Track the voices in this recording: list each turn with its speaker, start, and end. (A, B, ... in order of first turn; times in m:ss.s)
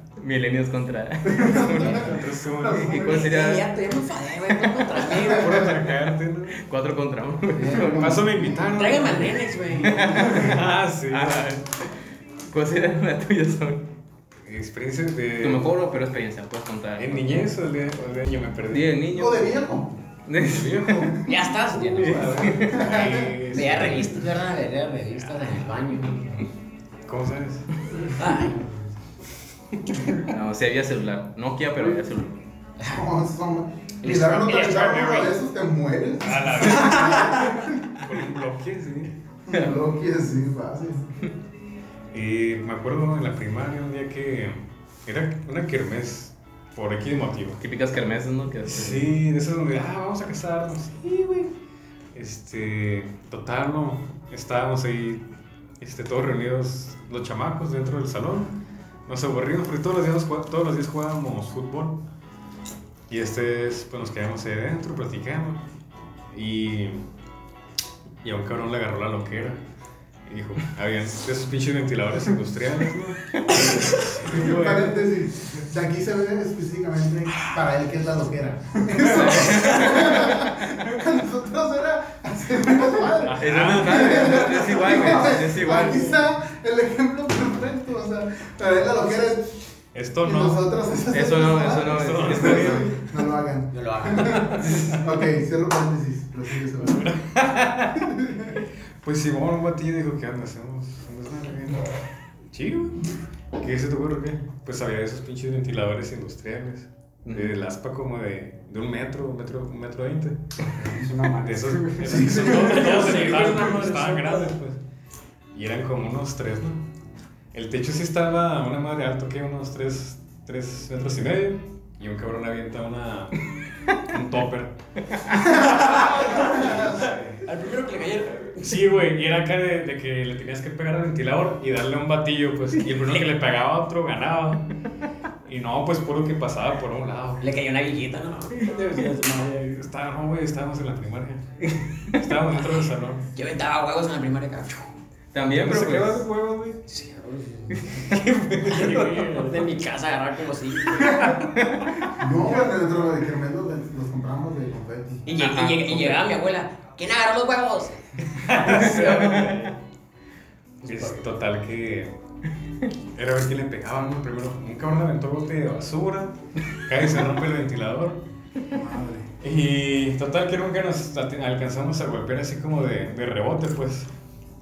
0:00.2-0:03.7 A
0:01.4-0:03.2 B
0:01.8-0:02.1 C
0:01.8-0:03.1 D
0:02.9-0:05.8 C
0:04.6-0:05.1 A
0:05.1-0:06.6 D
0:06.5-0:08.2 A
0:07.6-0:08.8 B
0:07.9-0:11.6 D
0:08.7-0:10.3 C
0:09.8-0:10.6 A
0:11.1-0:12.0 A
0:12.5-0:13.9 A
0:14.4-0:15.8 D
0:15.4-0:17.4 A
0:17.0-0:18.9 D
0:18.7-0:19.6 A
0:19.1-0:19.9 B
0:20.3-0:21.1 A
0:20.4-0:24.3 D
0:21.3-0:22.8 C
0:22.4-0:22.8 A
0:22.7-0:23.6 B
0:23.5-0:26.4 C
0:25.2-0:26.5 D
0:27.1-0:28.7 D
0:28.2-0:28.7 C
0:29.7-0:30.2 D
0:30.2-0:32.4 A
0:32.9-0:38.0 B
0:34.0-0:35.3 C
0:34.6-0:35.3 D
0:36.2-0:37.4 D
0:36.9-0:37.5 C
0:38.0-0:39.1 D
0:39.5-0:41.2 B
0:42.1-0:47.6 D
0:47.6-0:49.1 A
0:48.7-0:51.5 D
0:52.1-0:55.3 D
0:55.8-0:58.5 D
0:59.1-1:02.0 D
1:03.1-1:05.7 D
1:06.3-1:07.0 D
1:08.2-1:09.6 D
1:10.3-1:15.1 D
1:13.8-1:14.1 C
1:14.2-1:29.7 B
1:18.9-1:19.3 E
1:19.0-1:20.1 A
1:23.2-1:25.0 D
1:23.4-1:26.0 A
1:29.9-1:30.6 D
1:30.2-1:37.1 B
1:31.1-1:32.9 A
1:31.9-1:33.0 D
1:33.7-1:34.7 C
1:34.5-1:35.1 D
1:36.8-1:38.2 D
1:38.0-1:38.5 B
1:39.0-1:41.9 D
1:42.5-1:50.4 D
1:47.2-1:47.5 A
1:50.8-1:51.1 B
1:50.9-1:52.4 E
1:51.4-1:54.8 D
1:52.0-1:53.0 B
1:52.3-1:54.5 C
1:55.5-1:56.8 D
1:57.5-2:07.5 D
2:05.4-2:07.0 B
2:05.6-2:08.9 C
2:08.6-2:14.7 D
2:13.0-2:13.2 C
2:15.4-2:17.5 D
2:17.4-2:19.8 C
2:19.7-2:23.2 D
2:22.5-2:24.9 C
2:25.3-2:26.2 A
2:25.5-2:26.8 D
2:26.1-2:26.7 E
2:26.9-2:31.4 C
2:28.0-2:29.6 D
2:31.0-2:32.2 D
2:32.2-2:35.2 B
2:35.2-2:39.6 C
2:35.4-2:36.3 A
2:38.4-2:39.8 D
2:39.1-2:39.5 A
2:40.8-2:41.3 C
2:40.8-2:42.1 D
2:43.2-2:48.2 D
2:48.7-2:49.3 B
2:49.4-2:54.1 D